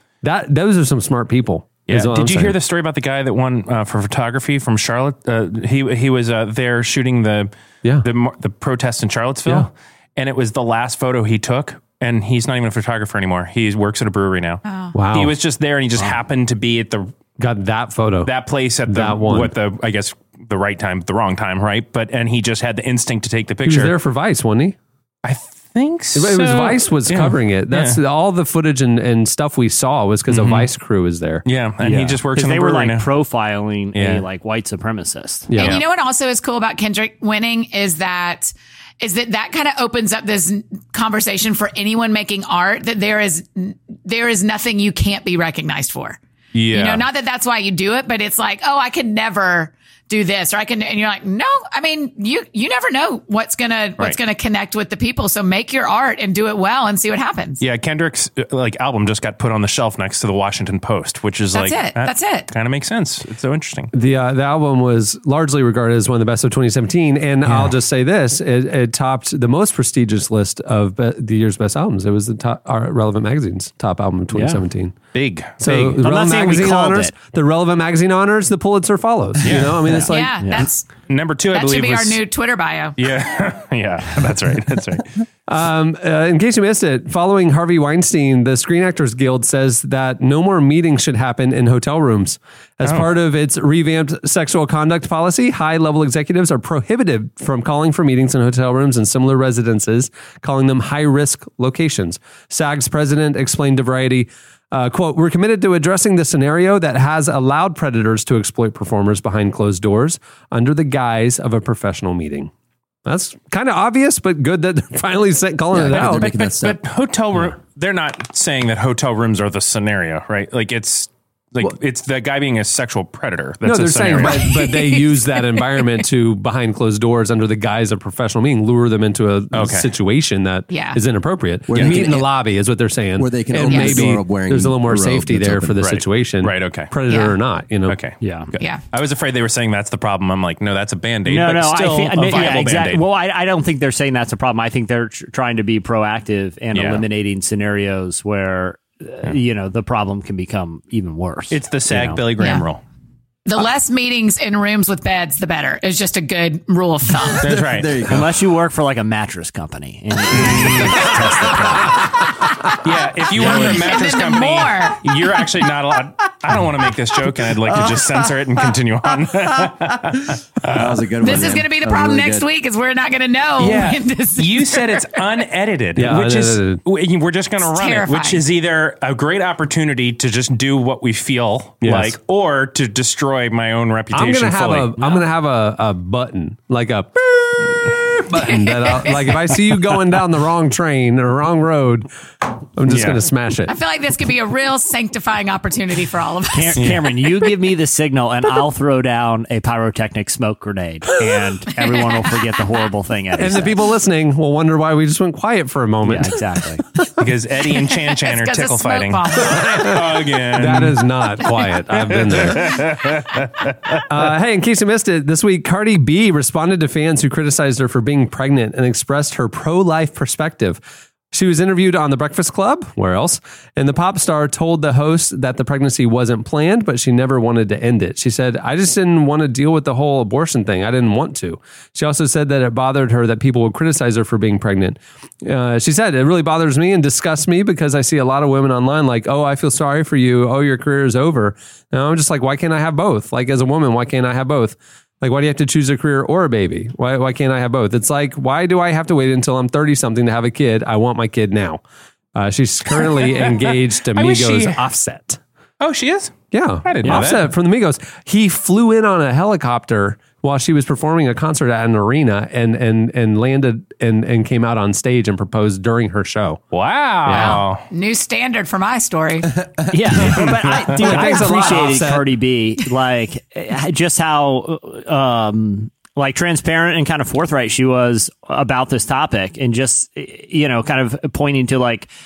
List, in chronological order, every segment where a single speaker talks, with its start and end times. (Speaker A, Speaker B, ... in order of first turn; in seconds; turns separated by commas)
Speaker A: 0.2-2.6, Speaker B: 1.9-7.5, Speaker B: 8.0-14.6, Speaker C: 14.7-14.9, Speaker A: 14.9-15.3, Speaker B: 15.1-17.1, Speaker A: 17.4-18.3, Speaker B: 18.3-23.9, Speaker A: 18.9-19.5, Speaker A: 23.6-24.8, Speaker B: 25.2-28.0, Speaker A: 26.1-31.4, Speaker B: 30.3-30.7, Speaker B: 31.5-33.1, Speaker D: 31.8-35.5, Speaker B: 34.0-34.2, Speaker A: 35.5-35.8, Speaker C: 35.6-46.2, Speaker B: 46.5-47.0, Speaker C: 46.7-57.6, Speaker B: 57.6-63.9, Speaker C: 61.5-62.5, Speaker A: 63.9-75.0, Speaker D: 74.3-74.6, Speaker B: 75.1-76.0, Speaker A: 75.6-80.4, Speaker D: 76.0-77.1, Speaker B: 79.4-79.9, Speaker D: 79.9-80.7, Speaker C: 80.1-80.9, Speaker B: 81.1-82.2, Speaker C: 81.5-83.0, Speaker B: 83.0-85.1, Speaker A: 85.5-112.5, Speaker B: 92.8-93.1, Speaker A: 113.0-116.3, Speaker E: 115.7-116.8, Speaker B: 115.9-124.5, Speaker A: 123.6-138.0, Speaker C: 124.4-125.8, Speaker B: 129.5-129.9, Speaker C: 130.7-131.0, Speaker E: 131.7-132.3, Speaker B: 131.7-132.0, Speaker E: 133.2-135.8, Speaker C: 133.6-134.1, Speaker B: 135.8-136.9, Speaker C: 137.1-137.4, Speaker B: 137.9-143.0, Speaker D: 138.2-138.5, Speaker D: 141.3-152.2, Speaker B: 146.7-147.0, Speaker B: 151.5-152.8, Speaker C: 152.4-152.6, Speaker C: 153.5-157.4, Speaker B: 157.4-158.0, Speaker E: 157.5-158.3, Speaker D: 158.1-162.1, Speaker B: 162.8-171.0, Speaker C: 163.4-165.1, Speaker E: 170.7-172.5, Speaker C: 171.2-175.2, Speaker B: 173.6-185.0, Speaker A: 176.0-176.8, Speaker C: 177.6-178.4, Speaker A: 181.8-182.2, Speaker A: 184.1-192.1, Speaker C: 188.4-189.3, Speaker A: 192.8-193.7, Speaker B: 192.9-193.2, Speaker C: 193.7-196.8, Speaker D: 196.5-203.8, Speaker B: 196.8-197.0, Speaker A: 203.4-206.4, Speaker D: 206.1-206.8, Speaker B: 207.2-211.1, Speaker C: 208.1-210.0, Speaker A: 209.6-212.9, Speaker B: 211.9-214.0, Speaker A: 214.1-251.8, Speaker A: 252.3-255.4, Speaker B: 253.3-254.8, Speaker B: 255.8-257.5, Speaker A: 256.5-266.6, Speaker D: 257.0-257.3, Speaker B: 266.7-267.9, Speaker A: 267.2-267.6, Speaker C: 267.3-269.5, Speaker D: 269.9-282.1, Speaker B: 270.3-271.3, Speaker A: 271.0-272.3